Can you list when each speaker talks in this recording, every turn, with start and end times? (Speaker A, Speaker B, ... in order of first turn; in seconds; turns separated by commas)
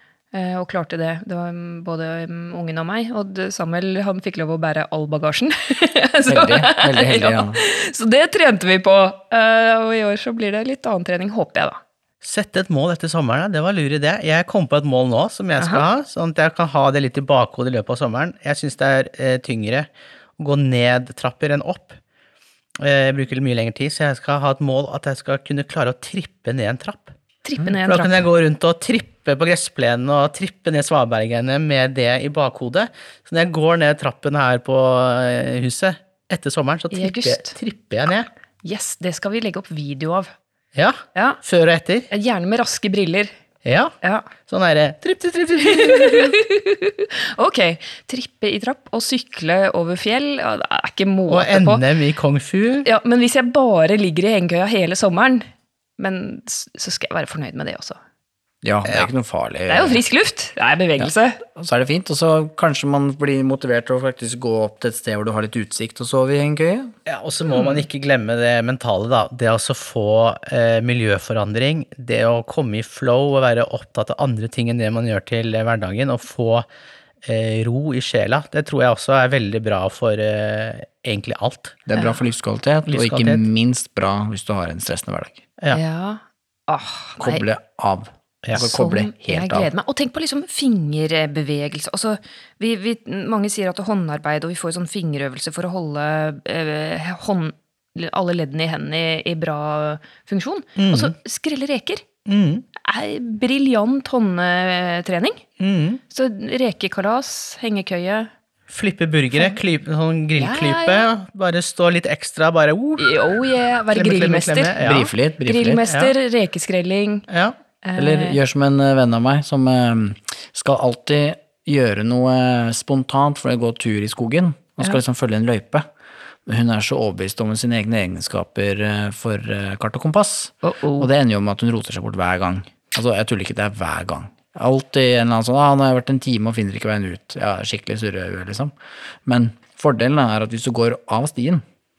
Speaker A: 0.3-11.8, Speaker B: 6.3-7.6, Speaker C: 12.2-22.0, Speaker A: 15.6-15.8, Speaker C: 22.8-27.1, Speaker A: 27.4-28.2, Speaker C: 27.9-38.3, Speaker A: 36.9-37.5, Speaker A: 38.6-40.3, Speaker C: 40.8-42.1, Speaker A: 41.1-41.4, Speaker A: 42.1-43.3, Speaker C: 43.6-44.0, Speaker A: 44.0-44.3, Speaker C: 44.5-46.4, Speaker A: 45.6-51.8, Speaker C: 51.3-52.9, Speaker A: 52.9-55.5, Speaker A: 56.0-58.0, Speaker B: 58.6-60.0, Speaker A: 59.7-61.4, Speaker B: 61.0-66.9, Speaker C: 67.1-76.7, Speaker A: 67.5-67.8, Speaker C: 77.2-81.8, Speaker B: 81.9-85.4, Speaker C: 82.9-83.4, Speaker A: 85.7-87.4, Speaker B: 87.2-89.7, Speaker A: 88.6-102.0, Speaker C: 100.8-101.1, Speaker C: 102.3-102.7, Speaker A: 102.8-105.4, Speaker C: 105.6-106.0, Speaker A: 106.1-108.3, Speaker C: 108.7-115.0, Speaker A: 109.3-109.6, Speaker A: 110.4-111.1, Speaker A: 113.0-117.3, Speaker B: 114.8-115.8, Speaker C: 115.9-116.1, Speaker C: 117.3-117.6, Speaker A: 117.8-118.4, Speaker B: 118.0-125.9, Speaker B: 126.5-141.6, Speaker A: 130.6-131.1